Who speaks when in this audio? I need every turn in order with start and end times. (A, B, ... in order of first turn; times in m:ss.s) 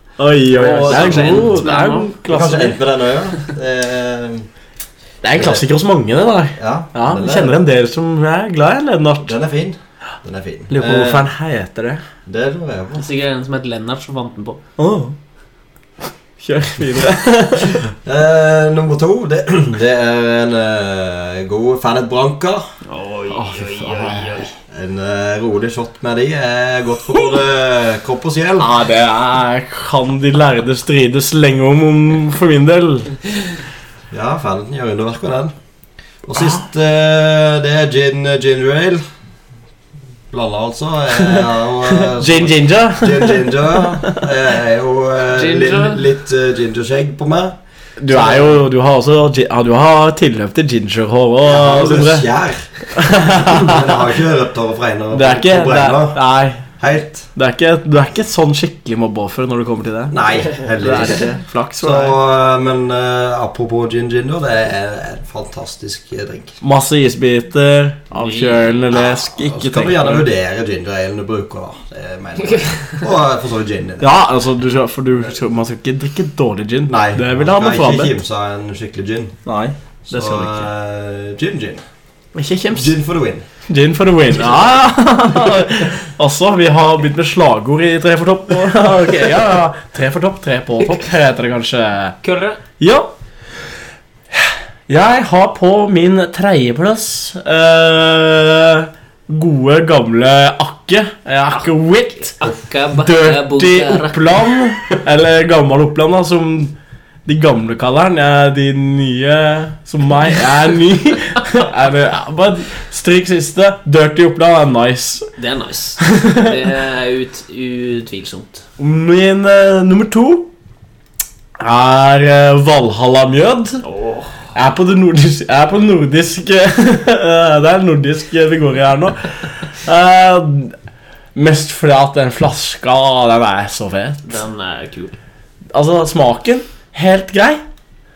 0:00.2-0:02.8 A
0:00.5-0:01.6 B
0:00.6-0:02.2 C
0:02.3-0:04.5 B
0:05.2-0:09.3 A
0:05.3-0:05.6 B
0:06.6-0:07.6 B
0:09.2-0:11.3 B
0:10.7-0:12.0 A
0:12.3-0:13.1 B
0:13.0-0:14.6 C
0:14.8-0:15.2 A
0:16.4-0:17.8 A
0:18.0-0:22.6 B
0:22.9-0:24.5 C
0:23.3-0:24.5 A
0:24.7-0:28.7 B
0:28.6-0:33.2 A
0:34.1-0:35.5 B
0:36.2-0:39.0 B
0:36.4-0:36.6 A
0:40.3-0:47.6 B
0:41.2-0:44.3 A
0:45.3-0:46.0 C
0:48.0-0:52.3 A
0:48.1-0:48.6 B
0:51.4-0:56.2 B
0:52.9-0:54.0 A
0:55.1-0:56.6 A
0:56.8-0:57.3 B
0:57.4-1:02.2 A
1:00.1-1:06.6 B
1:06.6-1:10.3 A
1:08.1-1:08.8 C
1:08.9-1:14.2 B
1:12.6-1:13.0 C
1:14.0-1:18.2 A
1:16.9-1:19.4 B
1:19.5-1:20.7 A
1:20.1-1:21.8 B
1:22.4-1:23.0 A
1:22.7-1:23.5 B
1:23.7-1:32.2 A
1:32.2-1:32.6 C
1:32.8-1:33.1 A
1:34.3-1:42.4 A
1:41.5-1:44.6 C
1:43.0-1:46.8 A
1:47.3-1:55.3 A
1:55.4-1:58.7 C
1:56.1-1:56.6 A
1:58.8-2:00.5 A
2:01.6-2:03.8 A
2:03.8-2:04.5 C
2:04.5-2:10.8 A
2:11.4-2:14.4 A
2:14.2-2:15.2 C
2:15.7-2:17.6 A